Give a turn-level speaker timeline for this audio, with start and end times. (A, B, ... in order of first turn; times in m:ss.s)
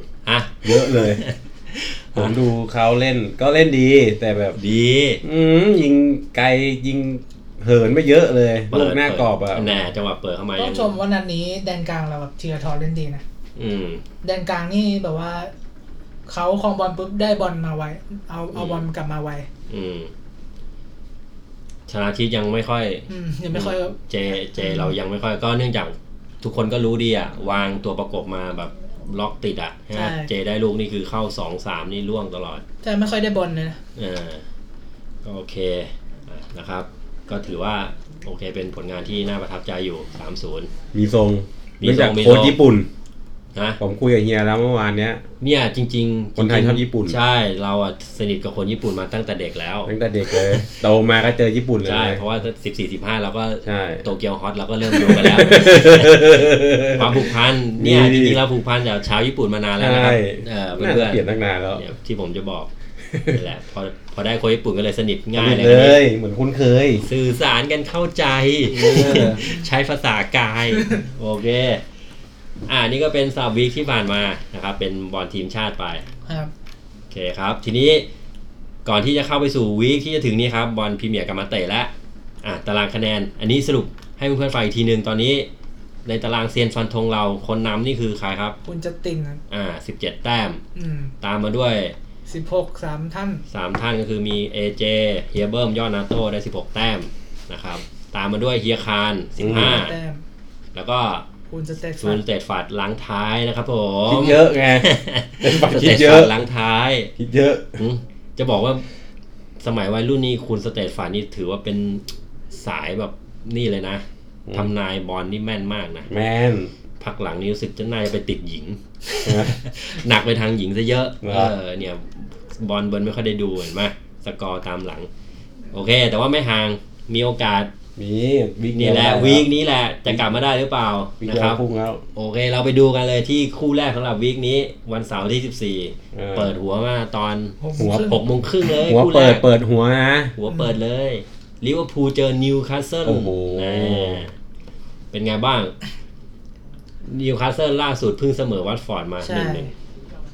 0:00.2-0:02.4 A
0:00.6-0:01.2 B
0:02.2-0:04.6 B
0:04.6-0:05.2 A
0:05.2-0:09.8 B
0:08.7-0:10.9 A
0:10.6-0:13.2 C
0:13.6-0:14.0 A
0:14.2-0:15.5 C
0:16.3-0:19.5 C
0:18.5-0:18.9 A
0:19.7-0:20.1 A
0:21.9-0:32.6 A
0:23.1-0:24.0 C
0:24.6-0:25.0 C
0:30.0-0:30.3 C
0:32.8-0:33.8 C
0:34.0-0:34.4 A
0:35.2-0:40.7 A
0:40.9-0:42.9 B
0:41.8-0:42.6 A
0:43.8-0:45.2 B
0:45.4-0:50.8 A
0:46.4-0:47.2 B
0:49.8-0:52.2 B
0:51.8-1:01.2 A
0:53.6-0:54.0 B
0:54.9-0:58.4 B
0:59.8-1:01.8 B
1:01.8-1:02.7 A
1:03.1-1:03.4 B
1:03.3-1:06.0 A
1:05.4-1:07.1 B
1:07.0-1:11.8 A
1:08.7-1:09.5 B
1:12.7-1:16.1 A
1:16.3-1:16.5 C
1:17.1-1:18.1 A
1:18.8-1:21.9 A
1:22.4-1:25.5 A
1:26.0-1:28.6 A
1:28.6-1:29.4 C
1:29.5-1:30.6 A
1:30.8-1:31.1 C
1:31.2-1:32.0 A
1:32.3-1:33.4 C
1:33.5-1:40.0 A
1:39.4-1:40.2 C
1:39.4-1:39.8 B
1:40.8-1:41.3 A
1:41.5-1:42.2 C
1:42.0-1:47.1 A
1:44.1-1:44.9 B
1:45.4-1:46.3 B
1:47.2-1:47.8 B
1:47.8-1:48.8 A
1:49.6-1:56.1 A
1:56.1-1:56.7 B
1:57.0-2:05.1 A
1:59.2-1:59.6 B
2:01.2-2:01.5 B
2:05.7-2:07.7 A
2:08.0-2:09.5 B
2:08.7-2:11.6 A
2:11.2-2:12.0 B
2:12.2-2:19.4 A
2:16.1-2:16.5 B
2:17.6-2:18.2 C
2:17.8-2:18.2 B
2:18.8-2:20.4 B
2:20.4-2:24.3 A
2:23.0-2:24.2 B
2:25.1-2:25.8 A
2:27.1-2:29.7 A
2:29.2-2:29.7 C